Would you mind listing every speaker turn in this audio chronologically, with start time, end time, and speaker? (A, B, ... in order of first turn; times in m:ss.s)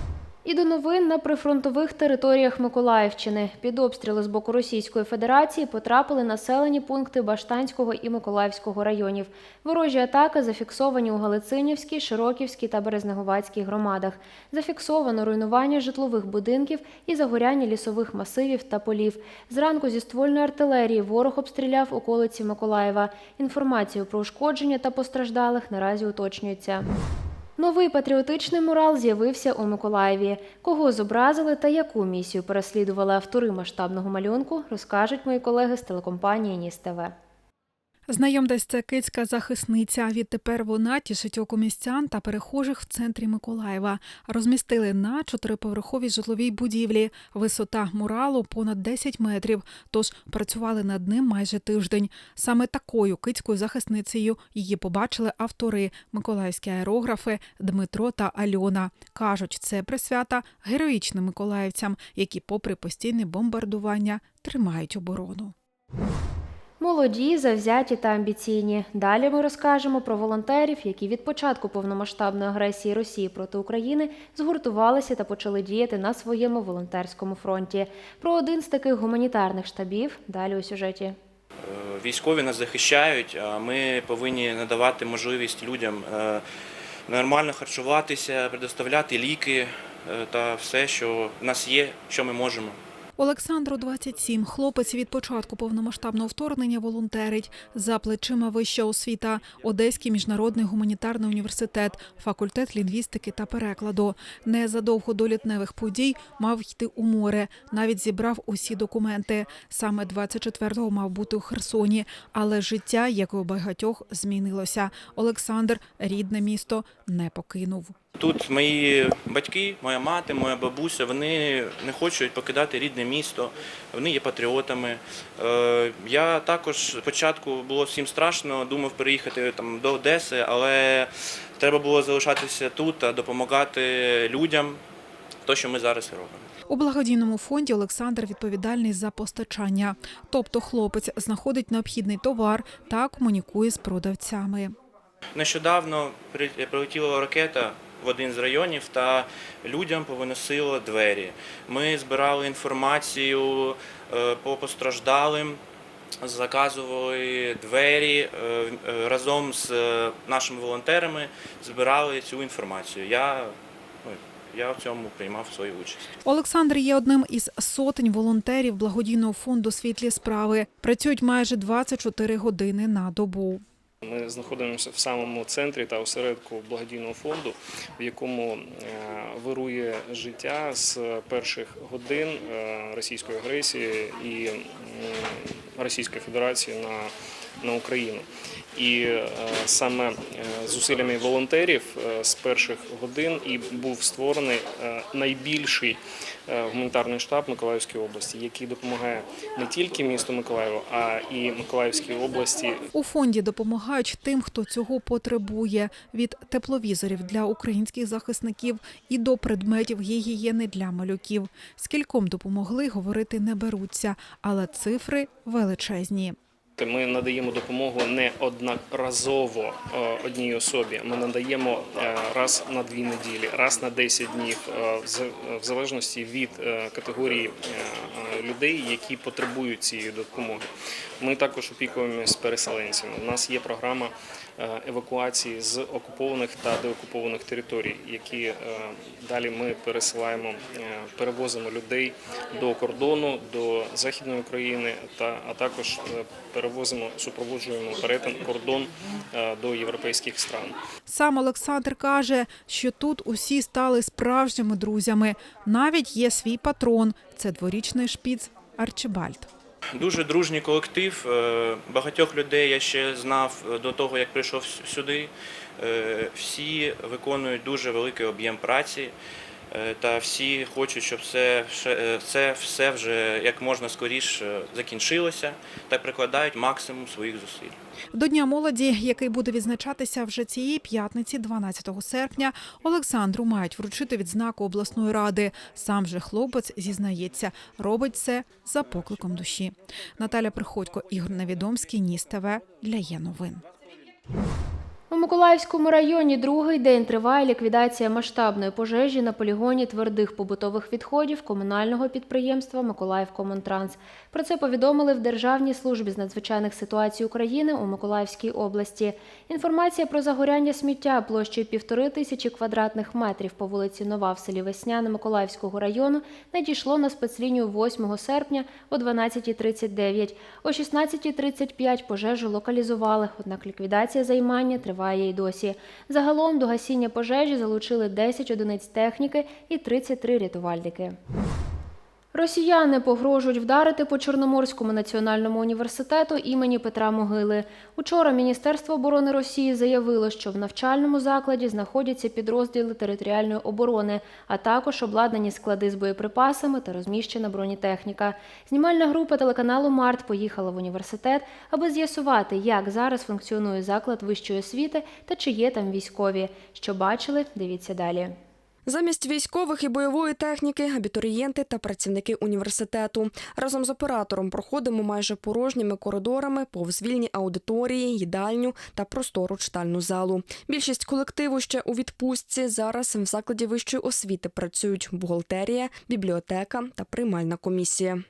0:00.4-0:26.9 A
0:27.6-0:37.1 A
0:38.1-1:05.5 B
1:06.8-1:21.2 A
1:21.6-1:26.4 C
1:27.1-1:32.8 C
1:33.2-1:57.9 B
1:58.2-2:14.8 C
2:15.5-2:16.4 C
2:16.7-2:24.8 B
2:25.4-2:35.6 C
2:36.2-2:43.5 C
2:44.0-2:46.1 C
2:46.2-2:53.6 B
2:54.0-3:22.8 D
3:23.0-3:36.4 B
3:36.8-3:50.7 D
3:51.2-4:10.8 D
4:11.1-4:19.5 B
4:20.0-4:29.1 C
4:29.7-4:37.8 C
4:38.1-4:53.6 B
4:55.1-5:31.2 A
5:32.3-5:58.4 A
5:58.9-6:18.2 E